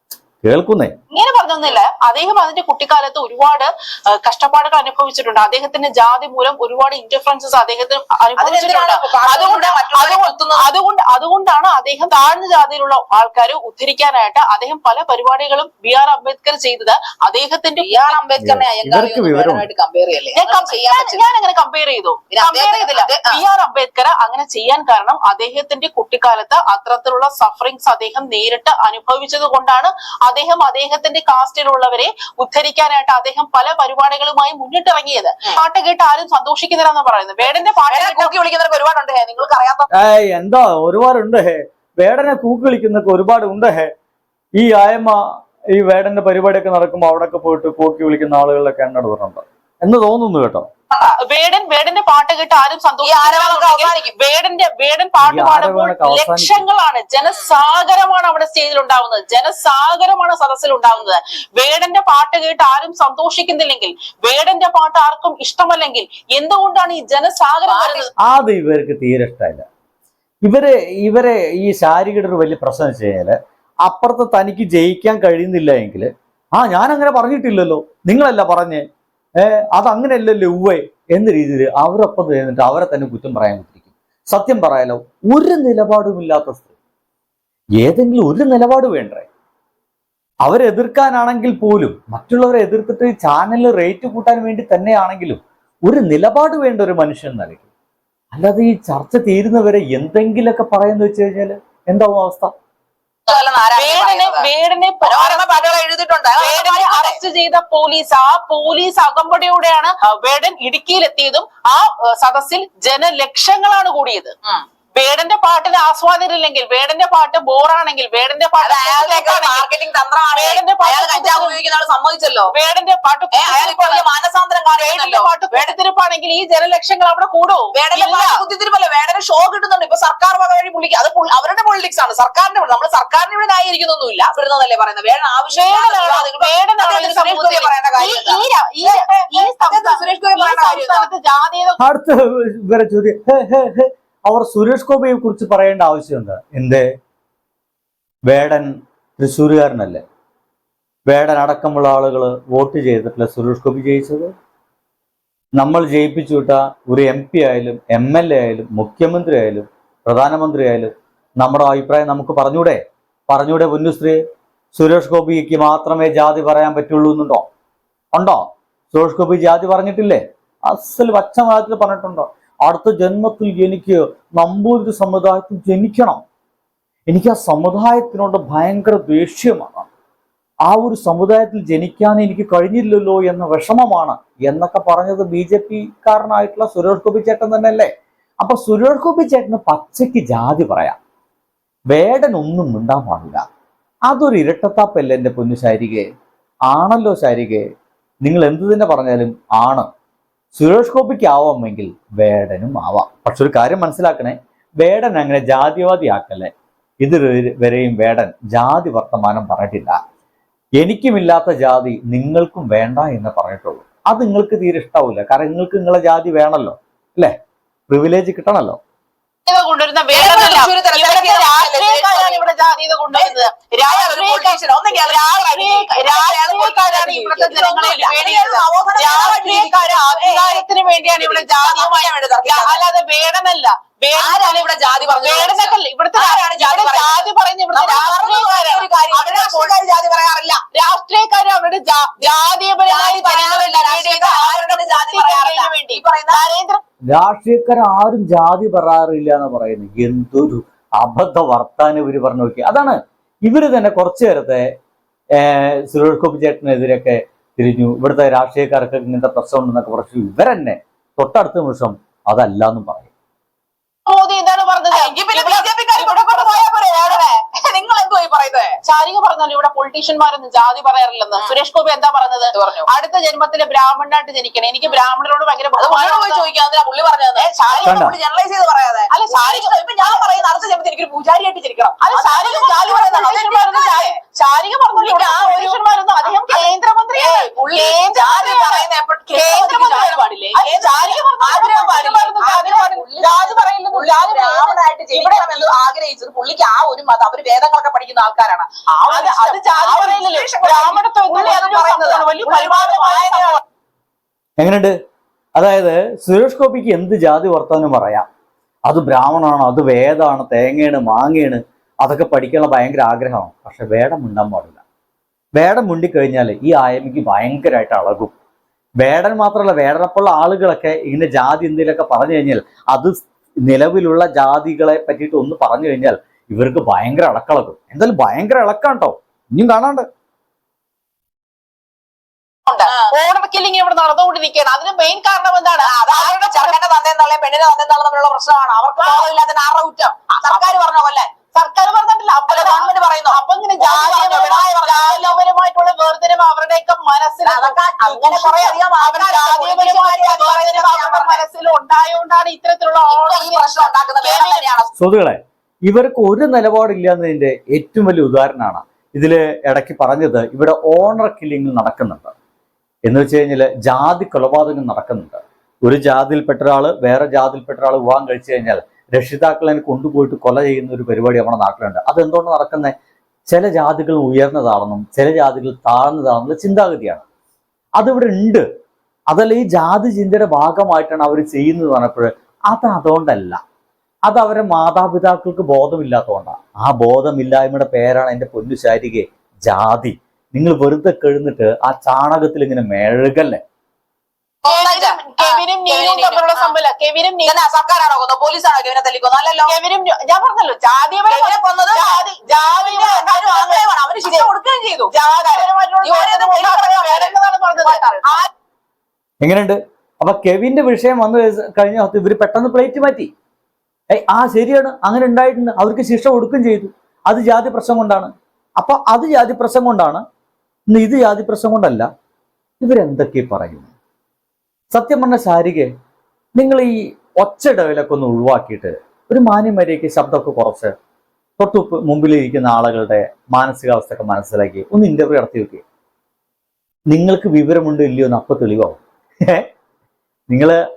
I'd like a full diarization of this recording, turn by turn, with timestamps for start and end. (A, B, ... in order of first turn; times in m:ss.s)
0:00.4-0:00.9 A
0:01.1-0:18.2 B
0:08.4-0:10.7 C
0:17.8-0:21.2 C
0:18.4-0:19.6 A
0:20.3-0:38.3 B
0:22.3-0:23.4 C
0:37.9-0:39.9 C
0:39.9-0:43.9 A
0:44.6-0:45.2 A
0:45.7-0:50.7 A
0:51.0-1:08.1 B
0:53.0-0:54.1 C
0:55.2-0:56.6 A
1:07.7-1:08.1 C
1:08.2-1:09.6 A
1:10.4-1:18.8 A
1:19.4-1:26.7 A
1:27.8-1:29.3 A
1:30.4-1:37.7 A
1:38.3-1:42.5 A
1:43.3-1:44.5 C
1:43.3-1:45.7 B
1:45.0-1:47.2 C
1:46.4-1:54.3 B
1:55.0-1:59.6 B
1:58.6-2:02.5 C
2:00.3-2:01.6 B
2:02.5-2:04.0 B
2:03.3-2:05.7 C
2:04.8-2:08.4 B
2:07.7-2:21.1 C
2:15.5-2:21.8 B
2:21.8-2:26.8 A
2:28.3-2:30.0 A
2:31.1-2:34.3 A
2:35.6-2:44.2 A
2:44.7-2:47.4 A
2:48.1-2:56.2 A
2:57.1-2:59.9 A
3:00.7-3:11.0 A
3:11.9-3:13.4 A
3:14.1-3:16.0 A
3:16.7-3:17.6 A
3:18.2-3:19.9 A
3:20.5-3:26.5 A
3:27.0-3:30.0 A
3:30.8-3:37.3 A
3:37.9-3:38.8 A
3:39.4-3:59.7 B
3:40.1-3:42.4 C
3:43.1-3:52.8 C
3:54.2-4:00.6 C
4:00.7-4:06.8 B
4:02.8-4:06.5 C
4:07.1-4:14.7 A
4:15.4-4:23.1 A
4:24.0-4:27.2 B
4:24.9-4:28.8 C
4:28.8-4:36.5 B
4:32.5-4:32.9 C
4:35.8-4:44.1 C
4:37.4-4:37.9 B
4:37.8-4:38.2 A
4:39.1-4:40.3 B
4:42.0-4:55.4 B
4:44.9-5:03.6 C
4:59.1-5:03.6 B
5:04.6-5:04.9 A
5:05.6-5:08.2 A
5:08.9-5:14.8 A
5:15.6-5:18.3 A
5:19.0-5:30.0 A
5:32.7-5:36.8 B
5:32.9-5:33.1 C
5:35.8-5:41.3 C
5:39.0-5:39.3 B
5:40.4-5:40.7 B
5:41.5-5:54.6 B
5:42.5-5:45.4 C
5:47.4-5:51.4 C
5:53.1-5:54.9 C
5:55.0-6:02.3 A
6:03.1-6:12.9 A
6:13.5-6:17.2 A
6:18.0-6:18.6 A
6:19.3-6:23.6 A
6:24.3-6:33.6 A
6:34.6-6:36.7 C
6:34.6-6:37.5 B
6:37.4-6:39.7 C
6:39.7-6:44.5 B
6:41.3-6:48.5 C
6:45.1-6:48.4 B
6:49.4-6:53.3 A
6:54.1-7:00.2 A
7:00.9-7:02.1 A
7:02.8-7:03.9 A
7:04.9-7:05.9 A
7:06.6-7:10.9 A
7:11.6-7:15.8 A
7:17.1-7:19.7 A
7:20.5-7:20.8 A